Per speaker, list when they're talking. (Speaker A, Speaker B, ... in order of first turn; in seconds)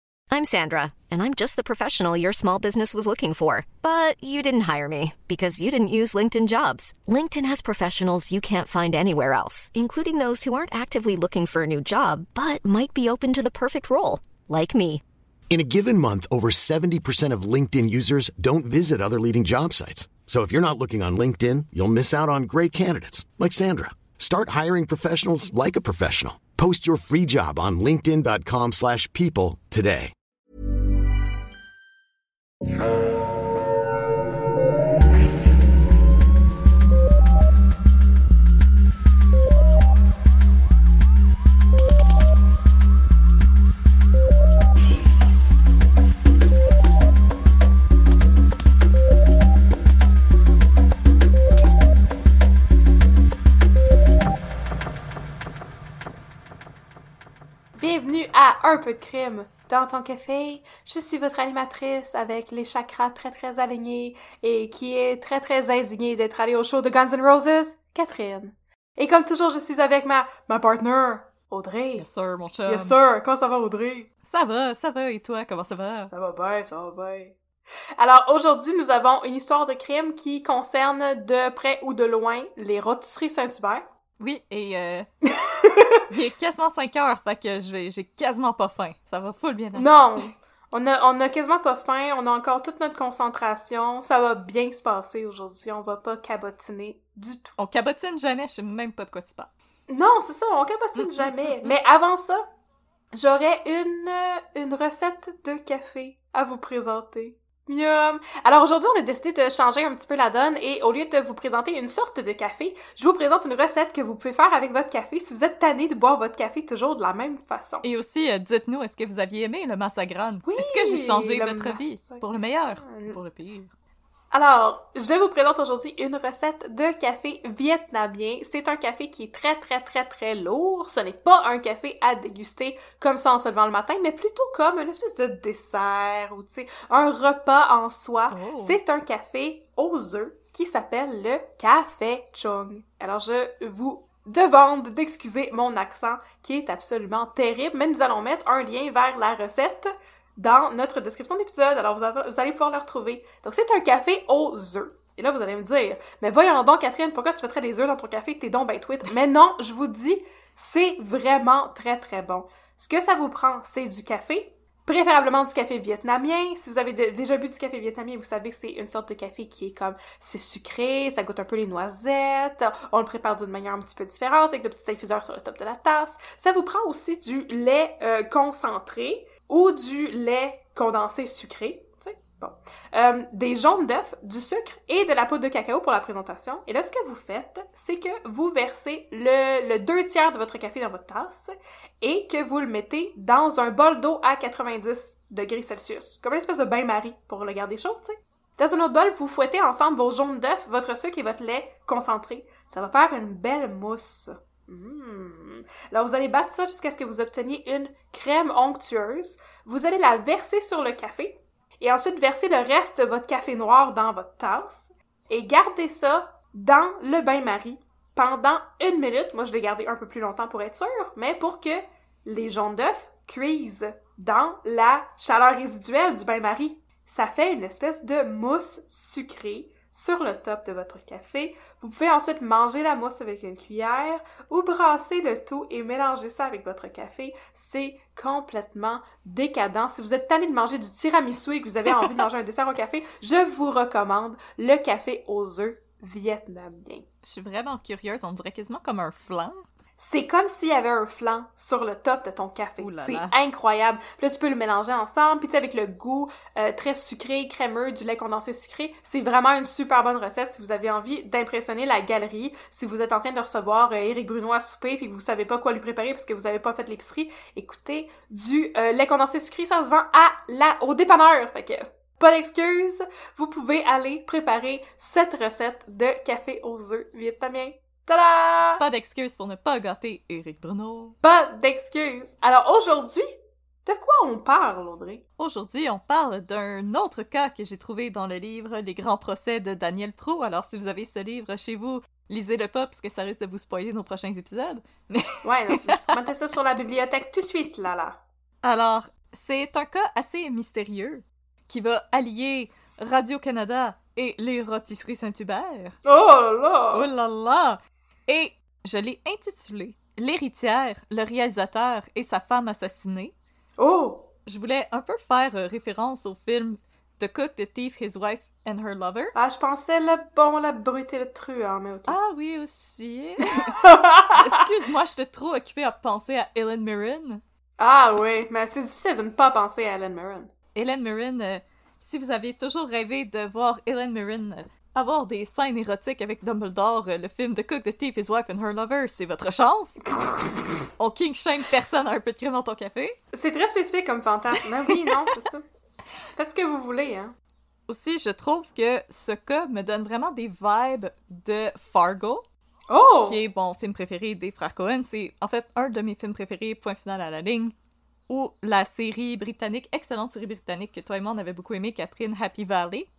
Speaker A: 0.3-15.0
Speaker B: 15.5-30.1
Speaker C: 57.8-72.0, 72.7-74.1, 76.1-77.3, 78.0-83.8, 85.2-86.0, 89.7-97.5, 99.9-102.4, 103.1-117.8, 120.5-122.2, 122.8-123.2, 124.3-247.1, 250.0-278.8, 281.2-283.3, 283.9-285.2, 295.4-298.2, 306.0-307.1, 313.8-314.3, 319.3-322.1, 323.6-324.6, 327.8-330.5, 343.3-345.6, 346.4-347.3, 352.9-353.4
Speaker D: 72.0-73.0, 74.3-76.1, 84.2-85.1, 86.1-89.9, 97.6-99.5, 101.0-101.7, 117.8-123.7, 138.3-138.8, 247.2-249.6, 252.8-253.3, 278.8-281.1, 285.4-296.2, 298.6-306.0, 306.9-313.3, 314.4-319.3, 322.1-327.4, 330.7-340.0, 341.0-343.1, 344.9-345.3, 347.9-352.4, 353.2-357.7, 358.3-363.1